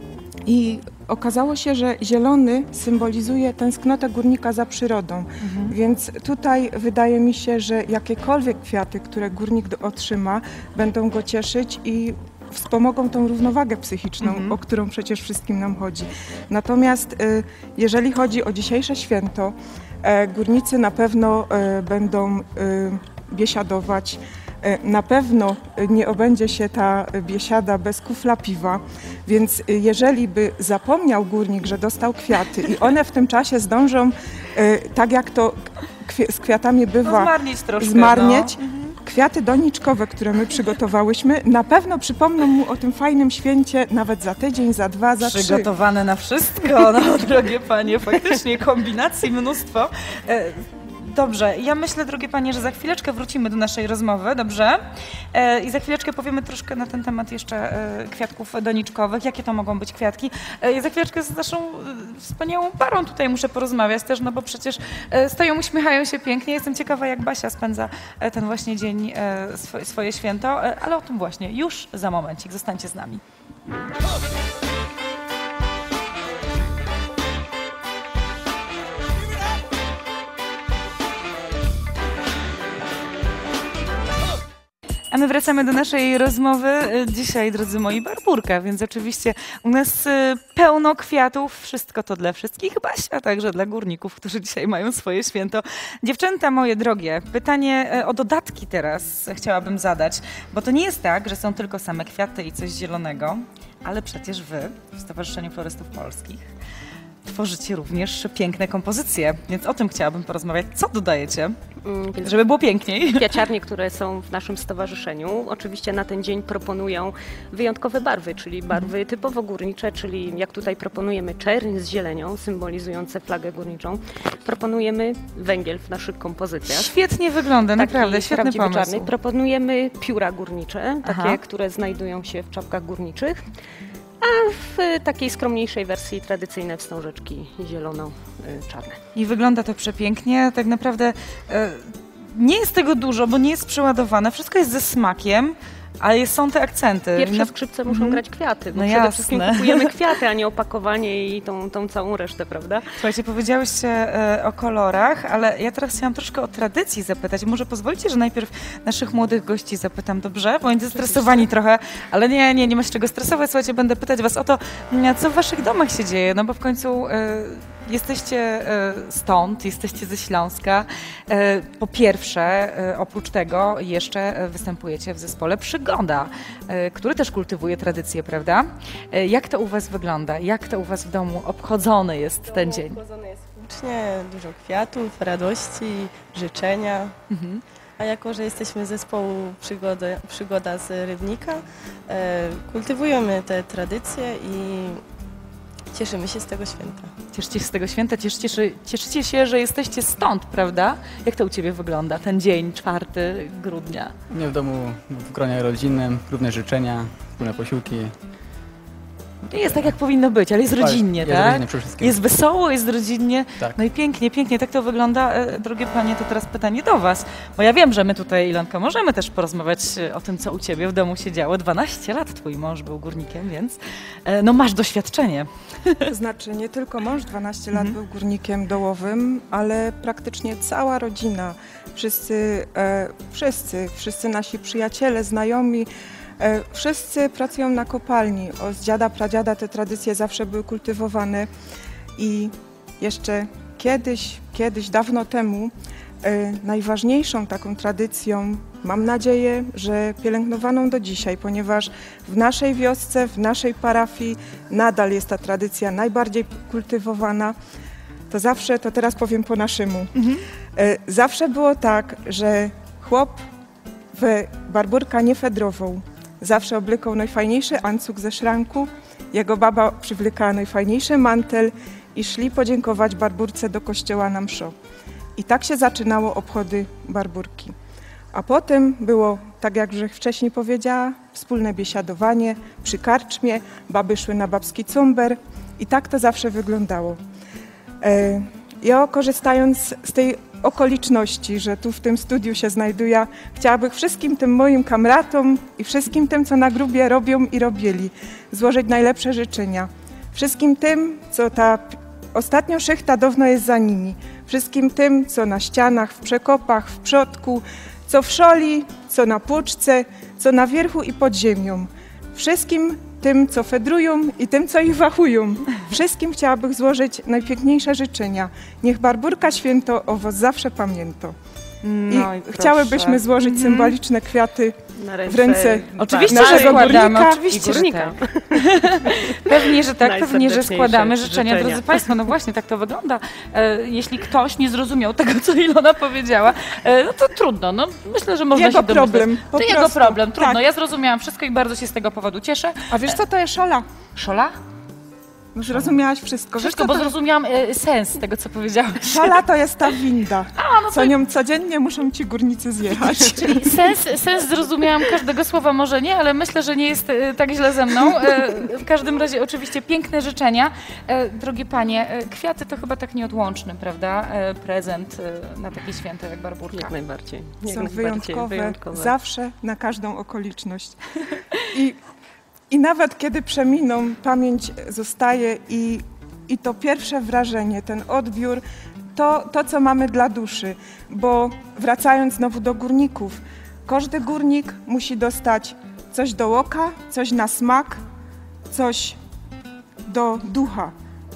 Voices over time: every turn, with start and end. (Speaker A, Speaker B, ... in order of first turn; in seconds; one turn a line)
Speaker A: 0.5-45.7
Speaker B: 5.4-5.7
Speaker B: 14.2-14.6
Speaker B: 37.0-39.0
Speaker B: 45.2-54.8
Speaker B: 55.3-73.2
Speaker B: 85.1-106.5
Speaker B: 107.2-111.6
Speaker C: 111.8-112.5
Speaker B: 112.2-113.3
Speaker C: 113.1-126.9
Speaker B: 126.7-129.1
Speaker C: 127.8-133.4
Speaker B: 131.0-131.4
Speaker C: 134.2-139.0
Speaker B: 139.2-148.2
Speaker C: 147.2-152.9
Speaker B: 148.7-149.9
Speaker B: 153.0-183.0
Speaker C: 160.9-161.4
Speaker D: 182.6-187.1
Speaker B: 187.3-187.6
Speaker D: 188.0-195.0
Speaker D: 195.9-197.1
Speaker B: 197.3-204.2
Speaker E: 204.3-208.2
Speaker B: 209.5-226.1
Speaker E: 210.8-212.2
Speaker A: 226.1-235.9
Speaker A: 236.4-241.5
Speaker A: 242.2-257.6
Speaker A: 258.3-260.1
Speaker B: 260.2-260.4
Speaker A: 260.8-263.4
Speaker A: 264.1-274.7
Speaker A: 275.4-277.8
Speaker A: 278.3-287.2
Speaker A: 288.0-321.4
Speaker B: 321.8-323.9
Speaker A: 322.1-327.5
Speaker C: 324.9-332.1
Speaker B: 326.0-343.1
Speaker A: 338.6-340.6
Speaker A: 342.9-343.9
Speaker B: 344.2-344.5
Speaker A: 345.5-347.1
Speaker B: 345.7-346.0
Speaker B: 346.6-349.4
Speaker A: 349.1-354.0
Speaker B: 350.6-351.1
Speaker B: 353.2-366.9
Speaker C: 366.7-369.1
Speaker A: 367.7-371.0
Speaker A: 371.6-372.0
Speaker A: 372.7-378.6
Speaker A: 379.1-388.0
Speaker A: 388.7-389.2
Speaker A: 390.1-390.9